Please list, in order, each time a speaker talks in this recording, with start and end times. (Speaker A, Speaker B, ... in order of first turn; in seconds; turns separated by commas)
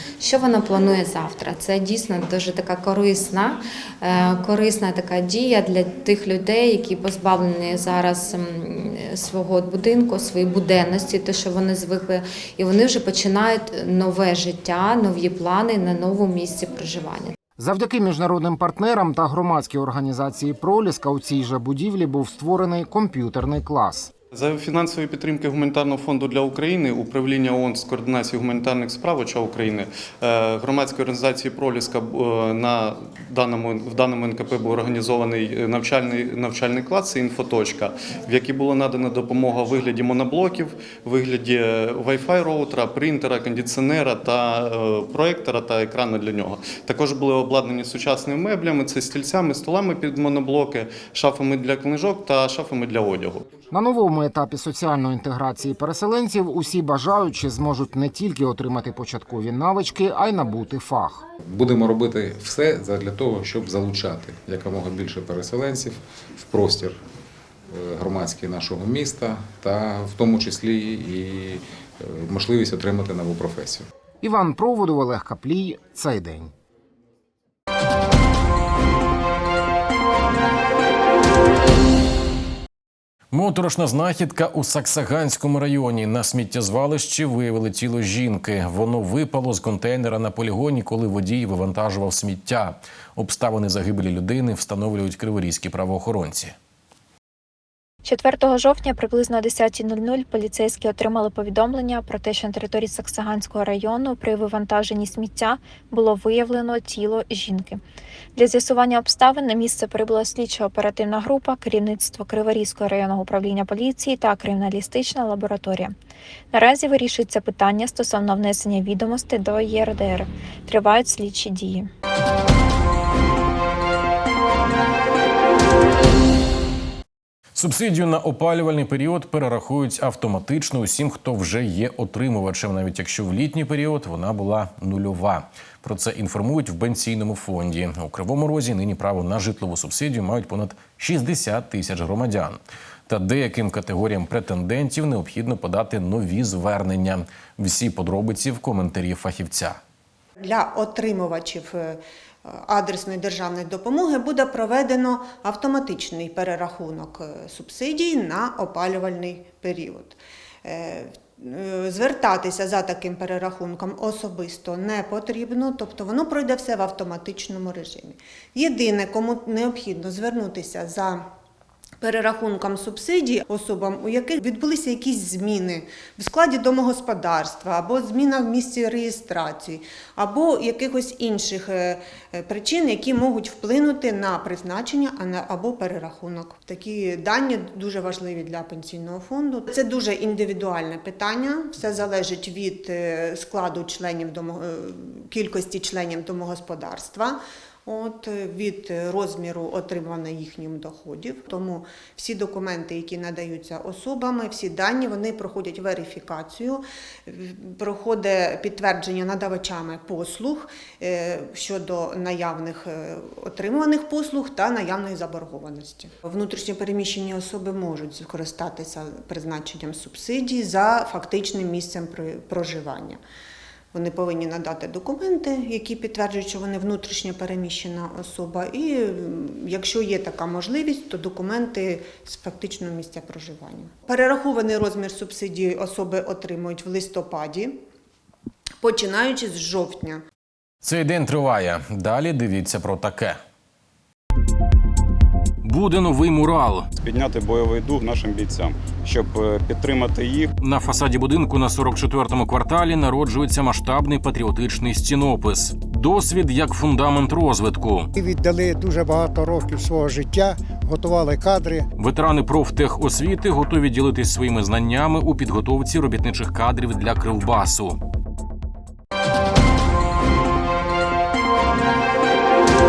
Speaker A: 0.2-17.3, Speaker B: 17.6-24.1, Speaker C: 24.3-53.4, Speaker B: 53.7-61.2, Speaker D: 61.5-67.0, Speaker D: 67.7-73.8, Speaker B: 74.2-76.5, Speaker E: 83.3-96.5, Speaker F: 98.0-107.8, Speaker F: 108.3-115.9, Speaker F: 116.5-121.9, Speaker E: 127.5-149.8, Speaker G: 150.4-171.2, Speaker G: 172.0-223.2, Speaker G: 223.9-237.8, Speaker G: 238.8-240.2, Speaker E: 240.8-243.4, Speaker E: 245.6-246.9, Speaker H: 247.0-250.5, Speaker E: 250.6-258.1, Speaker I: 258.1-261.9, Speaker E: 262.0-268.0